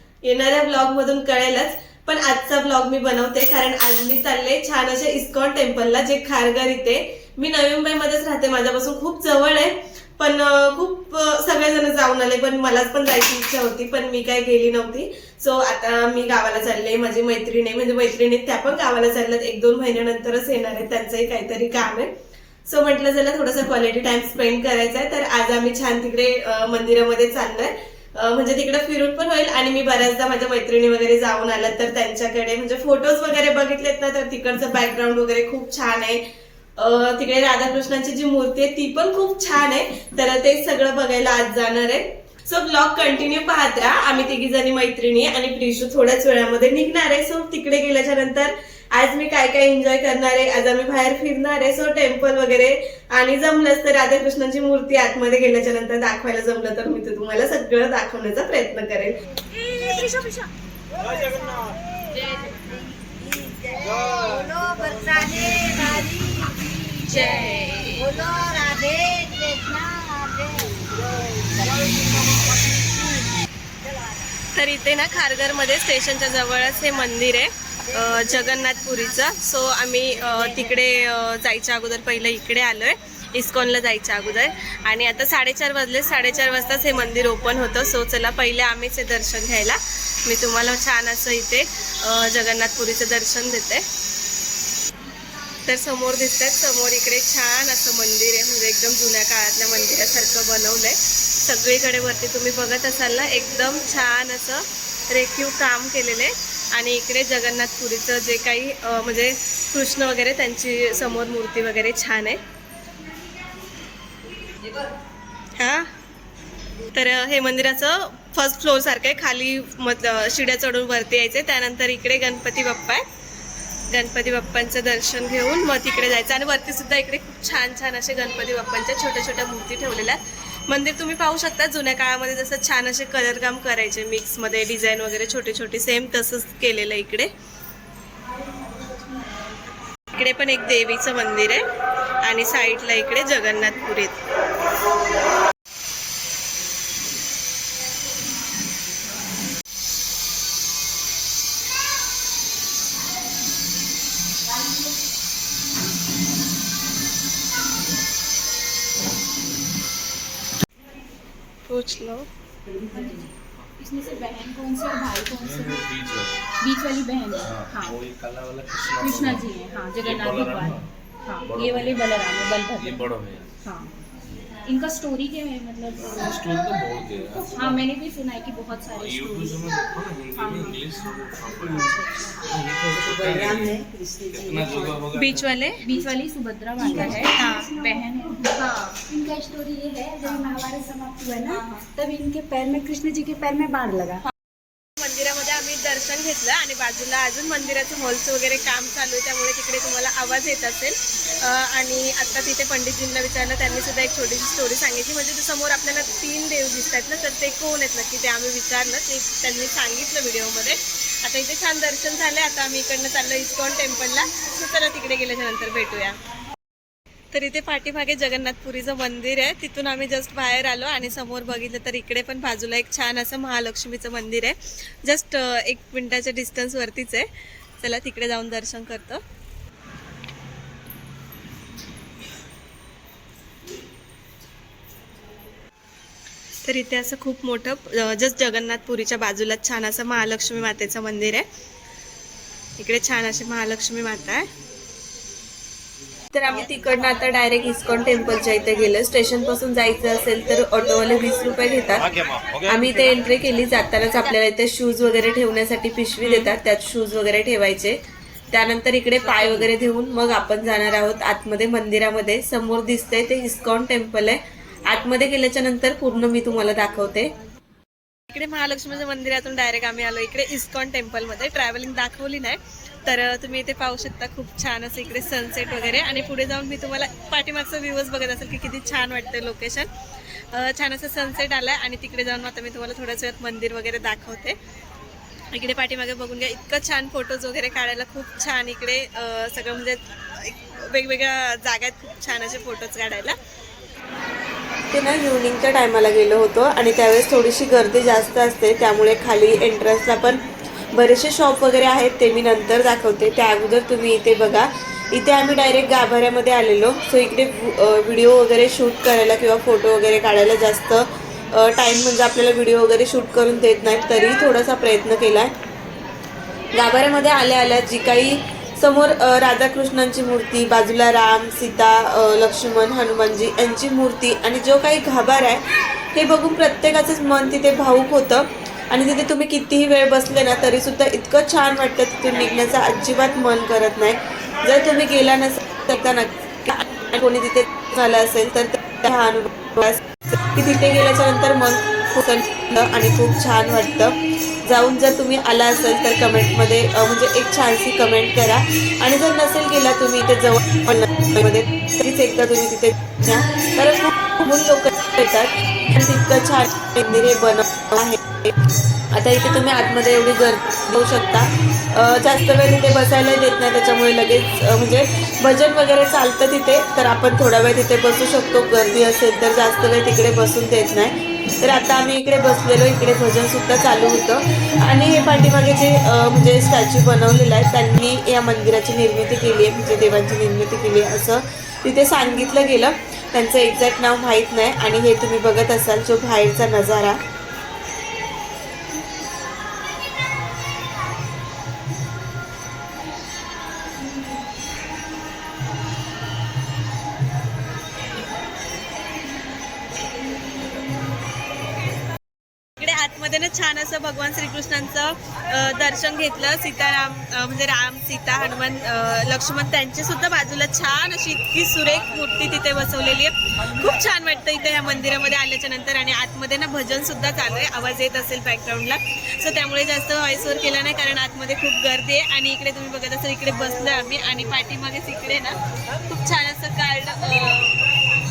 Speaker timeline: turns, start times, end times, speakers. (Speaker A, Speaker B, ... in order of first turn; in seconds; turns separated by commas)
Speaker A: 0.2-22.1, Speaker A: 22.6-36.2, Speaker A: 36.8-59.1, Speaker B: 59.6-61.8, Speaker B: 62.3-66.7, Speaker A: 67.0-68.2, Speaker B: 68.0-73.1, Speaker A: 74.5-93.8, Speaker A: 95.6-112.4, Speaker A: 115.6-115.9, Speaker A: 116.9-123.0, Speaker A: 123.9-137.3, Speaker A: 140.1-141.6, Speaker A: 142.2-144.2, Speaker A: 161.7-162.3, Speaker C: 162.8-165.8, Speaker D: 165.3-166.4, Speaker C: 166.6-168.0, Speaker D: 167.4-173.5, Speaker C: 169.0-173.1, Speaker C: 173.6-173.9, Speaker C: 174.7-176.4, Speaker D: 175.9-177.8, Speaker C: 177.3-179.6, Speaker D: 178.9-185.5, Speaker C: 180.3-182.5, Speaker B: 183.2-183.6, Speaker A: 185.2-185.8, Speaker C: 185.7-189.0, Speaker E: 186.8-188.4, Speaker A: 187.3-187.7, Speaker E: 189.0-194.2, Speaker A: 191.5-191.8, Speaker A: 195.0-216.2, Speaker A: 217.3-227.3, Speaker A: 227.8-229.2, Speaker A: 236.6-241.4, Speaker A: 242.8-244.5, Speaker A: 246.3-252.1, Speaker A: 252.7-257.9, Speaker A: 258.5-267.3, Speaker A: 268.3-279.9, Speaker A: 280.5-284.6, Speaker A: 285.5-293.4, Speaker A: 294.9-300.4, Speaker A: 300.9-315.5, Speaker A: 316.8-325.6, Speaker A: 326.1-344.1, Speaker A: 344.7-358.2, Speaker A: 359.1-371.1, Speaker A: 371.6-387.2, Speaker A: 402.8-427.8